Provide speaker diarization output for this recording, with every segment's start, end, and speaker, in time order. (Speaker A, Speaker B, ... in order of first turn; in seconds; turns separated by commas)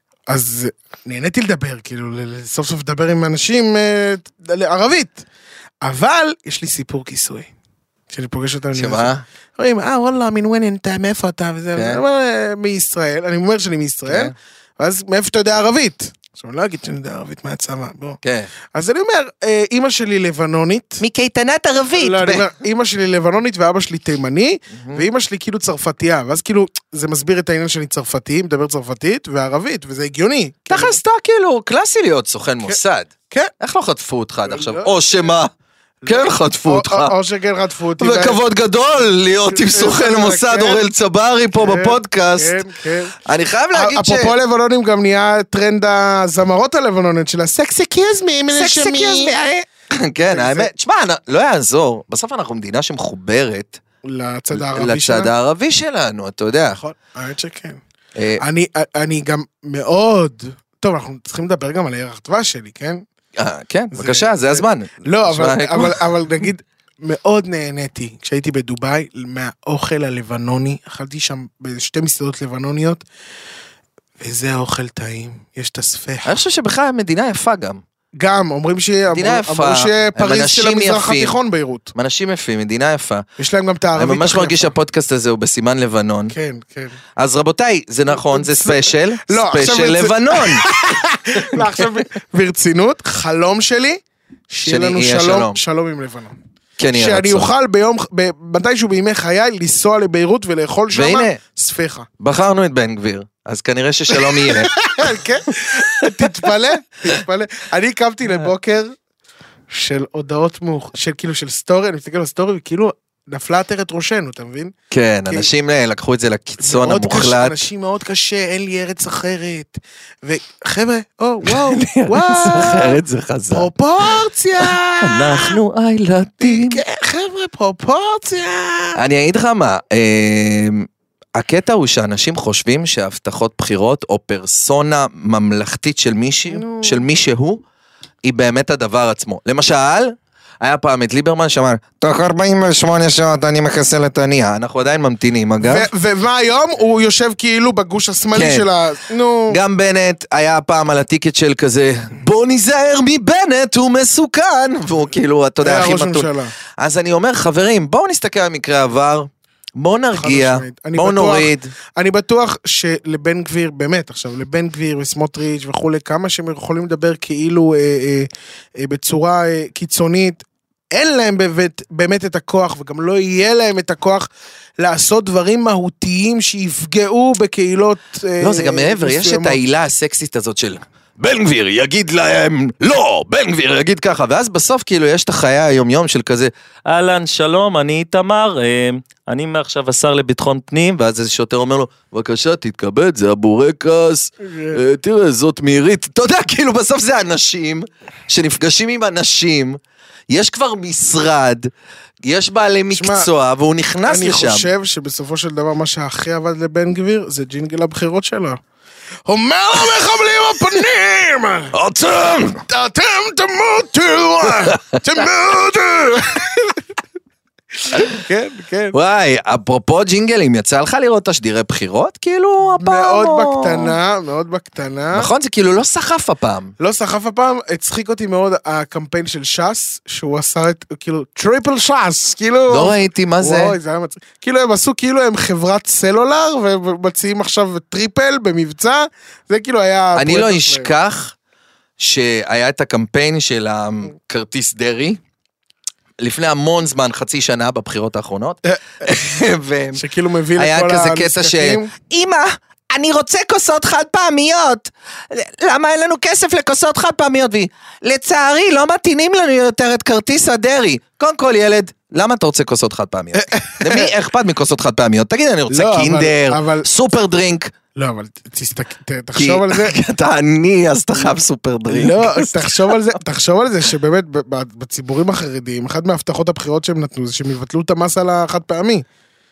Speaker A: 0.3-5.2, Speaker A: 5.8-7.5, Speaker A: 8.1-18.2, Speaker B: 8.7-9.2, Speaker B: 11.8-12.0, Speaker B: 14.1-14.3, Speaker B: 18.2-18.5, Speaker A: 18.7-21.0, Speaker B: 21.0-22.5, Speaker A: 22.0-31.0, Speaker B: 24.8-25.0, Speaker B: 30.7-35.5, Speaker A: 34.5-35.0, Speaker A: 36.0-38.4, Speaker B: 36.0-37.1, Speaker B: 38.0-42.6, Speaker A: 39.5-40.9, Speaker A: 41.5-43.2, Speaker B: 43.2-44.4, Speaker A: 43.7-49.3, Speaker B: 48.5-53.8, Speaker A: 50.2-50.7, Speaker A: 54.0-55.3, Speaker B: 54.5-56.8, Speaker A: 56.8-57.8, Speaker B: 58.2-58.4, Speaker A: 58.4-63.0, Speaker B: 63.4-66.1, Speaker A: 63.9-73.0, Speaker A: 74.2-76.4, Speaker B: 76.2-77.8, Speaker A: 78.2-81.9, Speaker B: 79.1-81.4, Speaker B: 81.9-83.2, Speaker A: 83.4-84.7, Speaker B: 84.0-86.3, Speaker A: 86.3-87.0, Speaker B: 87.2-90.7, Speaker A: 88.1-96.4, Speaker B: 91.3-92.0, Speaker B: 94.7-95.6, Speaker B: 96.8-97.5, Speaker A: 96.9-102.1, Speaker B: 100.9-101.4, Speaker B: 102.2-105.1, Speaker A: 104.1-108.9, Speaker B: 106.0-106.4, Speaker A: 109.7-114.7, Speaker B: 114.9-117.6, Speaker A: 116.6-123.0, Speaker B: 121.5-126.8, Speaker A: 123.5-125.6, Speaker A: 126.4-129.0, Speaker B: 129.0-137.6, Speaker A: 136.5-137.1, Speaker B: 138.2-145.9, Speaker A: 145.6-149.6, Speaker B: 148.3-148.7, Speaker B: 149.5-161.7, Speaker A: 155.6-156.5, Speaker A: 160.1-174.3, Speaker A: 174.8-179.7, Speaker B: 178.4-199.8, Speaker A: 194.4-194.8, Speaker B: 200.3-201.7, Speaker B: 202.2-204.7, Speaker A: 202.9-203.3, Speaker A: 204.1-208.6, Speaker A: 209.3-211.8, Speaker B: 211.7-212.6, Speaker A: 212.7-216.8, Speaker A: 217.8-219.0, Speaker B: 218.9-223.9, Speaker A: 222.6-225.3, Speaker B: 225.1-226.7, Speaker A: 226.8-240.9, Speaker B: 232.7-233.8, Speaker B: 240.2-241.3, Speaker B: 242.0-245.2, Speaker B: 246.2-250.0, Speaker A: 249.9-251.9, Speaker B: 250.6-267.7, Speaker A: 263.3-264.1, Speaker A: 265.7-266.9, Speaker A: 267.9-270.0, Speaker B: 269.4-272.9, Speaker A: 271.9-279.1